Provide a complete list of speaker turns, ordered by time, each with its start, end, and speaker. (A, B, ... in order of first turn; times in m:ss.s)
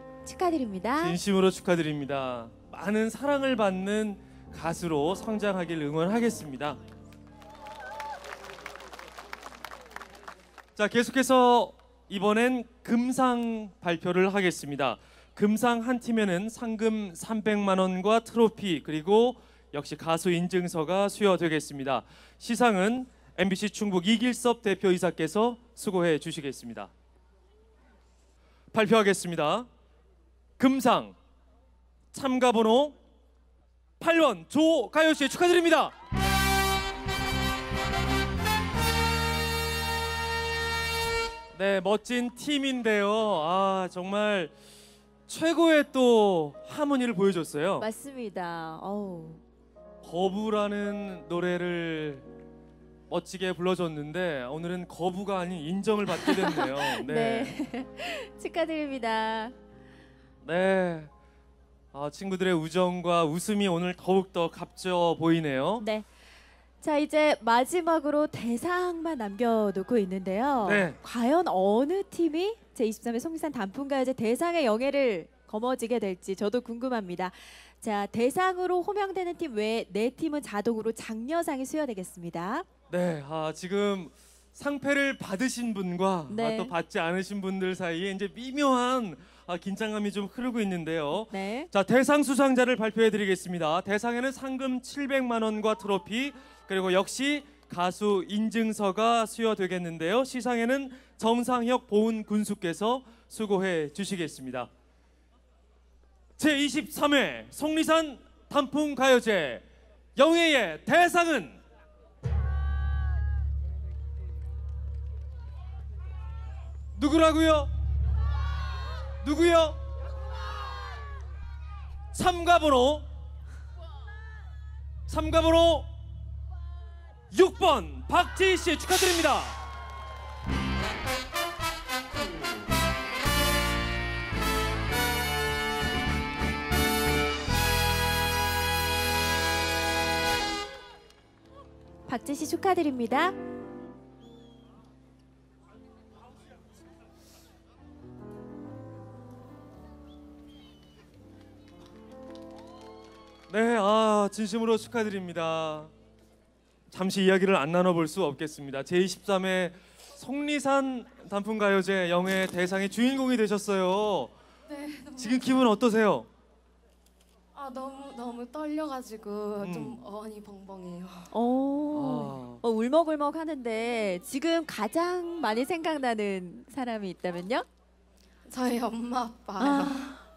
0:00.2-0:01.2 A
0:01.0-0:06.8 B
0:10.8-0:26.9 B
0:28.7-0:29.7 B
0:30.6-0:31.1 B
0:32.1-0:32.9 B
0:34.0-0:35.9 B
0:41.5-0:44.5 B
0:45.3-0:47.9 B
0:47.8-0:49.4 A
0:50.0-0:52.2 B
0:53.1-0:57.5 B
0:56.1-0:59.5 A
1:00.4-1:01.1 B
1:01.9-1:05.8 B
1:05.8-1:06.0 A
1:06.8-1:22.6 A
1:10.6-1:11.0 B
1:22.9-1:44.7 B
1:26.3-1:26.7 A
1:31.3-1:31.7 A
1:46.4-1:49.6 B
1:50.2-1:51.6 B
1:56.9-1:57.7 B
1:59.2-1:59.8 B
2:02.1-2:03.0 B
2:05.1-2:05.9 B
2:07.3-2:09.6 B
2:22.1-2:23.3 A
2:33.5-2:35.9 B
2:36.9-2:44.3 B
2:44.7-2:45.4 C
2:45.2-2:46.3 B
2:47.5-2:51.3 C
2:49.6-2:50.0 B
2:51.3-2:57.6 A
2:51.9-2:52.6 B
2:58.4-3:00.2 C
2:59.6-3:00.2 A